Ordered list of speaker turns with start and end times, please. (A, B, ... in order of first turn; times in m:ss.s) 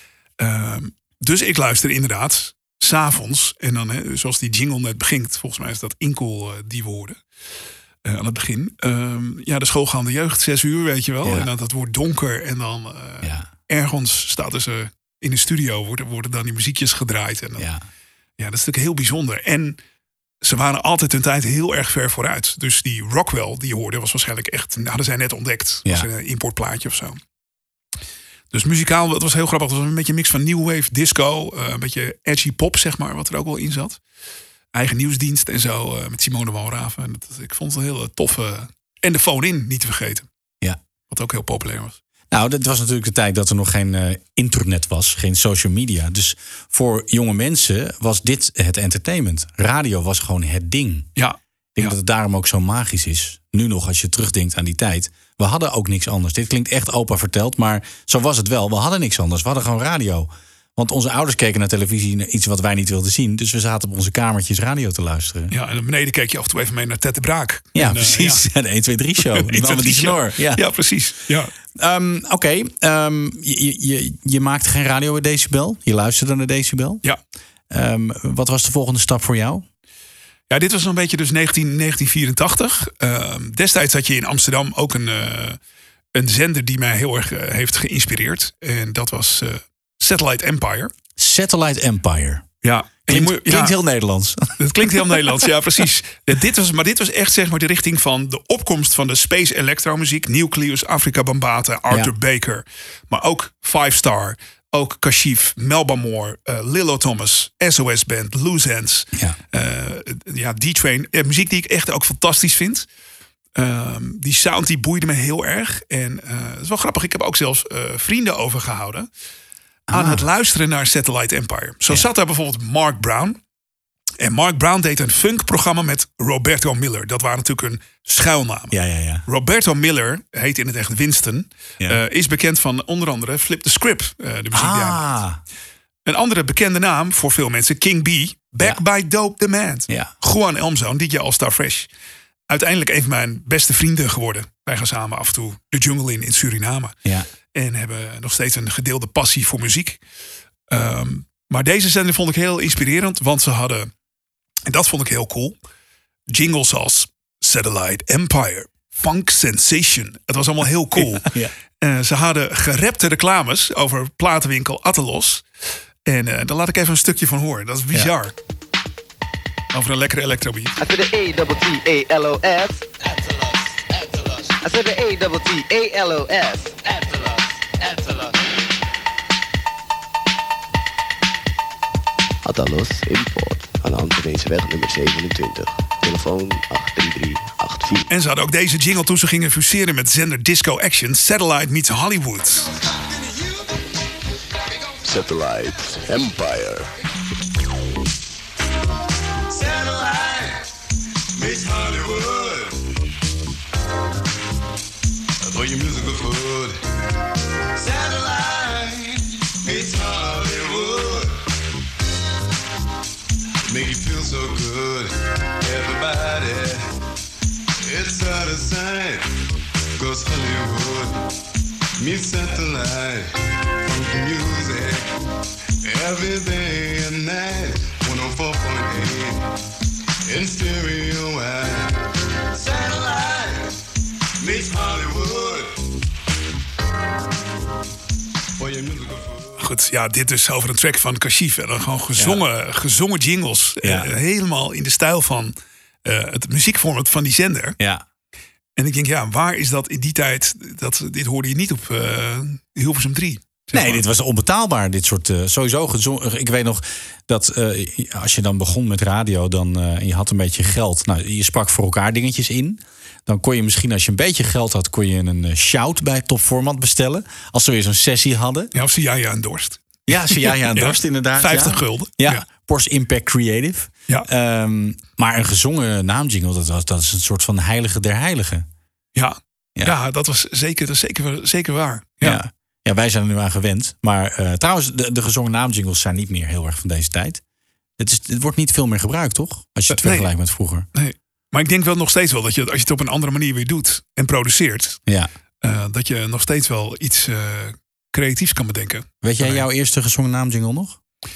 0:00.4-0:07.2 A
0:08.0-0:17.7 A
0:13.2-0:13.5 B
0:17.6-0:17.8 B
0:18.4-0:19.8 A
0:20.4-0:27.2 A
0:28.5-0:34.0 A
0:34.7-0:40.3 A
0:41.1-0:42.0 A
0:42.3-0:51.1 B
0:51.2-0:51.9 A
0:51.8-1:05.5 B
1:05.5-1:08.5 A
1:07.8-1:10.6 B
1:09.2-1:11.5 A
1:11.8-1:17.0 B
1:17.7-1:19.6 B
1:20.5-1:25.6 A
1:26.1-1:30.9 A
1:31.2-1:32.5 B
1:32.6-1:33.8 A
1:33.1-1:35.4 B
1:34.6-1:52.9 A
1:53.6-1:59.1 A
1:59.9-2:00.2 B
1:59.9-2:03.4 A
2:04.2-2:08.7 A
2:08.7-2:09.2 B
2:09.3-2:15.0 A
2:14.5-2:15.4 B
2:16.0-2:21.9 A
2:19.9-2:20.1 B
2:22.5-2:27.0 A
2:27.5-2:30.0 A
2:30.7-2:33.9 A
2:34.7-2:35.6 A
2:36.3-2:41.3 A
2:41.0-2:41.5 B
2:41.8-2:45.4 A
2:46.1-2:48.4 A
2:49.7-2:50.7 A
2:50.8-2:53.1 C
2:54.1-2:58.3 C
3:02.4-3:08.1 D
3:08.1-3:12.7 A
3:15.0-3:16.9 D
3:19.5-3:20.6 E
3:21.3-3:22.8 E
3:25.4-3:26.8 E
3:27.8-3:31.4 E
3:33.7-3:36.8 E
3:37.8-3:39.3 E
3:40.0-3:41.2 E
3:42.0-3:43.3 E
3:43.9-3:45.0 E
3:45.8-3:49.5 E
3:50.3-3:52.0 E
3:52.5-3:53.7 E
3:54.4-3:55.7 E
3:58.6-3:59.6 E
3:59.6-4:07.8 A
4:02.2-4:02.4 B
4:03.8-4:04.1 B
4:07.8-4:08.0 B
4:08.8-4:14.0 A
4:13.7-4:28.7 B
4:28.7-4:32.4 A
4:30.1-4:38.7 B
4:39.2-4:42.4 A
4:42.2-4:47.4 B
4:48.0-4:50.9 B
4:49.9-4:50.3 A
4:50.9-4:55.0 A
4:55.6-4:59.7 A
4:59.2-5:01.0 B